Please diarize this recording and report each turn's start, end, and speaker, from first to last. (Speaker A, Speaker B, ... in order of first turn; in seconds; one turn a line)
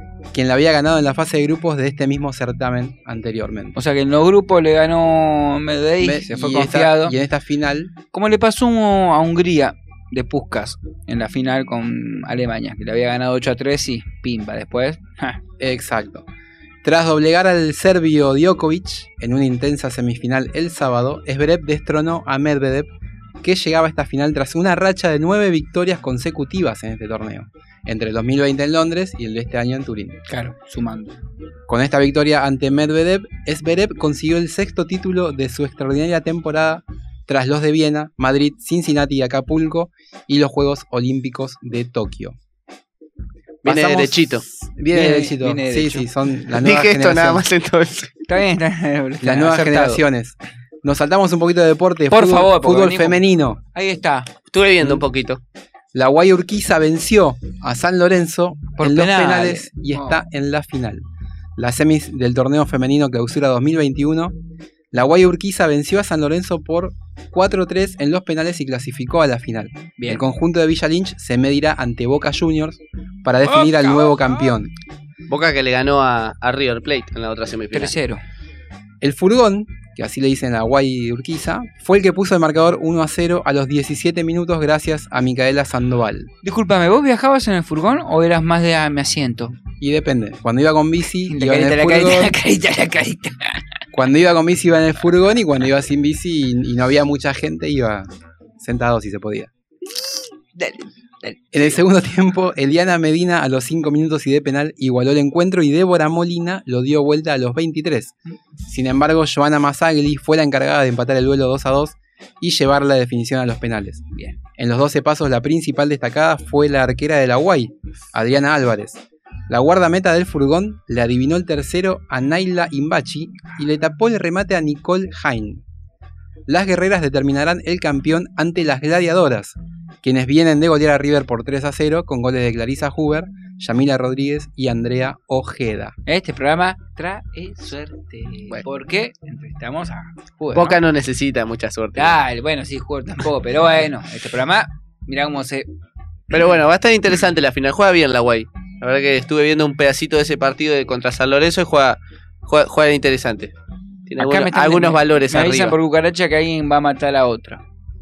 Speaker A: 0.3-3.8
Speaker B: 3.8-7.2
Speaker A: 6.0-7.9
Speaker B: 8.1-15.4
Speaker A: 15.6-16.3
Speaker A: 16.8-22.9
Speaker A: 23.4-30.2
Speaker B: 30.3-31.1
Speaker A: 31.7-42.4
Speaker C: 43.6-44.4
Speaker A: 43.6-47.4
Speaker B: 44.9-46.1
Speaker C: 46.6-48.2
Speaker B: 48.3-50.0
Speaker A: 49.2-53.6
Speaker B: 52.1-53.2
Speaker B: 53.7-54.3
Speaker C: 54.5-55.4
Speaker A: 55.9-61.0
Speaker B: 58.8-60.2
Speaker A: 61.6-64.3
Speaker A: 64.9-74.7
Speaker B: 70.0-70.2
Speaker B: 73.5-74.5
Speaker C: 75.3-77.9
Speaker B: 77.7-78.2
Speaker A: 79.0-86.3
Speaker B: 86.4-89.5
Speaker A: 89.8-92.3
Speaker B: 91.3-93.6
Speaker A: 93.9-98.1
Speaker A: 98.6-99.5
Speaker B: 100.5-101.8
Speaker A: 101.5-108.2
Speaker A: 108.7-114.0
Speaker A: 114.6-125.6
Speaker A: 126.5-135.9
Speaker B: 136.1-140.8
Speaker C: 140.5-142.1
Speaker B: 142.0-145.7
Speaker C: 146.3-153.5
Speaker C: 154.1-155.8
Speaker B: 154.2-157.6